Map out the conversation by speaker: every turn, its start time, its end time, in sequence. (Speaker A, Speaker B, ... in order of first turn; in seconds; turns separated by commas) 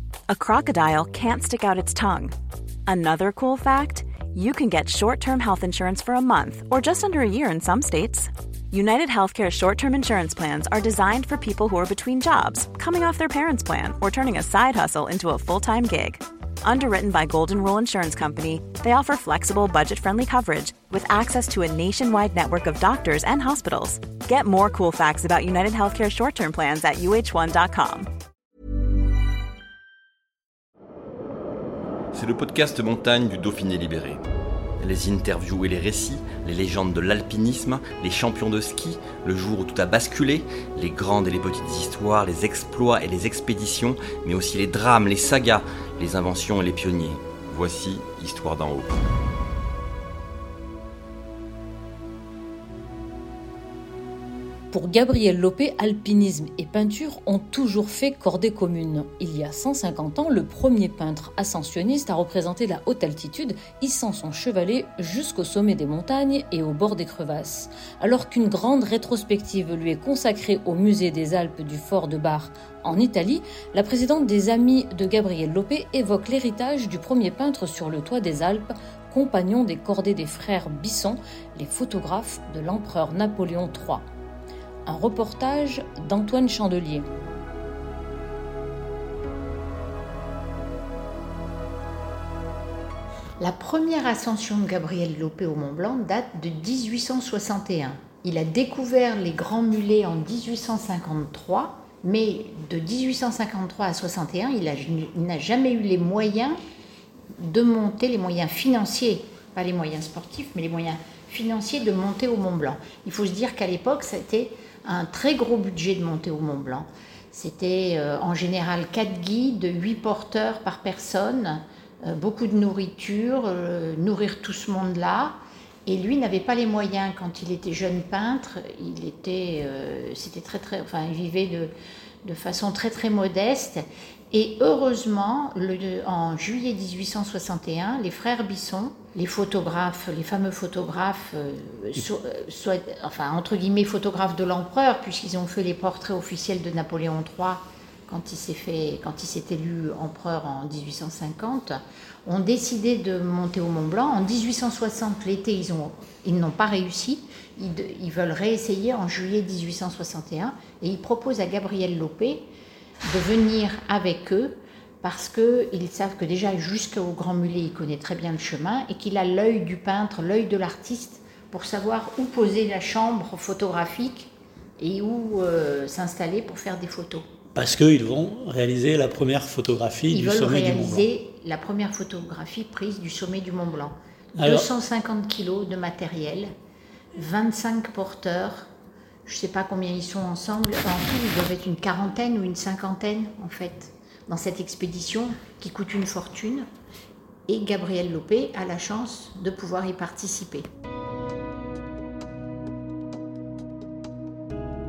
Speaker A: 0.3-2.3, Speaker A: 2.9-28.1, Speaker B: 32.1-34.2, Speaker B: 34.8-49.0, Speaker C: 54.7-84.0, Speaker C: 84.8-87.0, Speaker D: 93.4-106.6, Speaker D: 107.4-131.7, Speaker D: 132.2-162.4, Speaker D: 163.0-177.2, Speaker E: 177.5-181.1, Speaker D: 180.1-183.9, Speaker E: 184.4-184.7, Speaker D: 184.4-186.5, Speaker D: 187.1-188.7, Speaker D: 189.2-196.7, Speaker D: 197.5-200.7